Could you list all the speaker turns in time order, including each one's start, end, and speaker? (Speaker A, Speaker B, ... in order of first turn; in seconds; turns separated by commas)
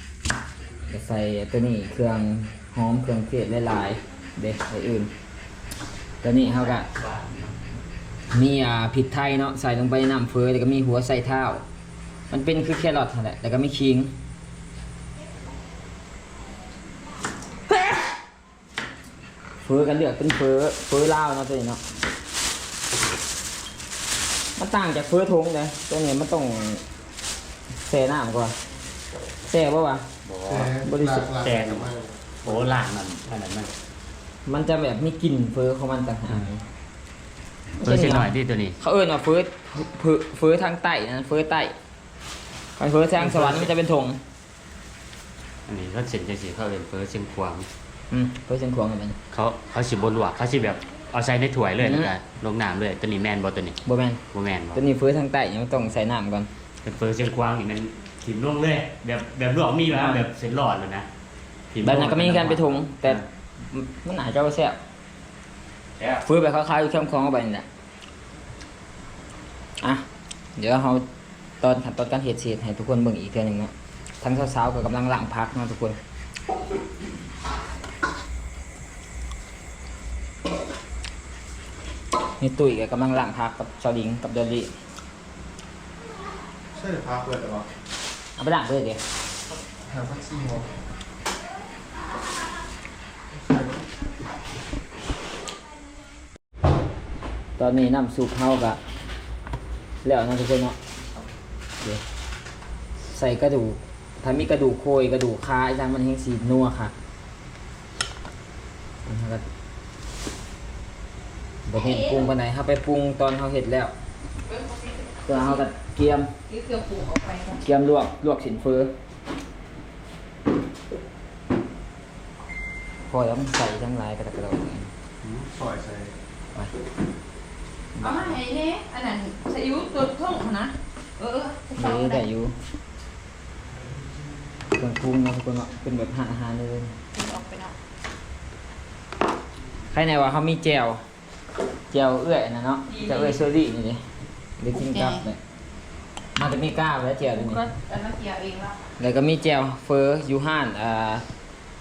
Speaker A: 0.9-5.1, Speaker A: 6.2-6.9, Speaker B: 6.7-7.5, Speaker A: 8.3-11.6, Speaker A: 12.3-14.1, Speaker A: 19.6-21.8, Speaker A: 24.6-26.8, Speaker A: 27.9-28.6, Speaker A: 29.5-30.1, Speaker B: 30.3-30.7, Speaker C: 30.5-32.6, Speaker A: 30.8-31.3, Speaker B: 31.4-33.7, Speaker A: 34.5-36.7, Speaker A: 37.8-41.8, Speaker B: 37.8-38.8, Speaker A: 42.8-44.2, Speaker B: 45.7-47.7, Speaker A: 48.1-49.2, Speaker B: 49.3-53.8, Speaker A: 51.8-52.1, Speaker A: 53.9-54.2, Speaker B: 54.3-54.8, Speaker A: 54.8-56.5, Speaker B: 56.8-61.1, Speaker A: 59.9-60.2, Speaker B: 61.7-63.2, Speaker A: 61.8-64.8, Speaker A: 66.2-67.7, Speaker A: 70.6-71.1, Speaker A: 71.6-76.0, Speaker A: 82.4-84.7, Speaker C: 86.7-87.7, Speaker A: 88.4-89.0, Speaker C: 89.8-90.7, Speaker C: 93.3-93.8, Speaker A: 97.6-98.8, Speaker A: 100.0-100.8, Speaker A: 103.2-106.9, Speaker A: 109.1-109.5, Speaker A: 111.7-113.9, Speaker D: 111.7-112.3, Speaker D: 114.5-115.6, Speaker A: 115.3-116.3, Speaker D: 116.5-117.6, Speaker A: 117.6-118.9, Speaker A: 123.1-124.9, Speaker C: 125.2-126.1, Speaker A: 128.0-128.4, Speaker D: 128.0-132.2, Speaker A: 131.7-132.5, Speaker A: 134.8-137.0, Speaker D: 137.1-137.8, Speaker A: 139.9-141.0, Speaker A: 141.9-144.0, Speaker D: 142.9-143.4, Speaker A: 144.6-145.4, Speaker D: 144.7-145.2, Speaker A: 146.4-147.6, Speaker D: 147.2-148.8, Speaker A: 149.0-151.2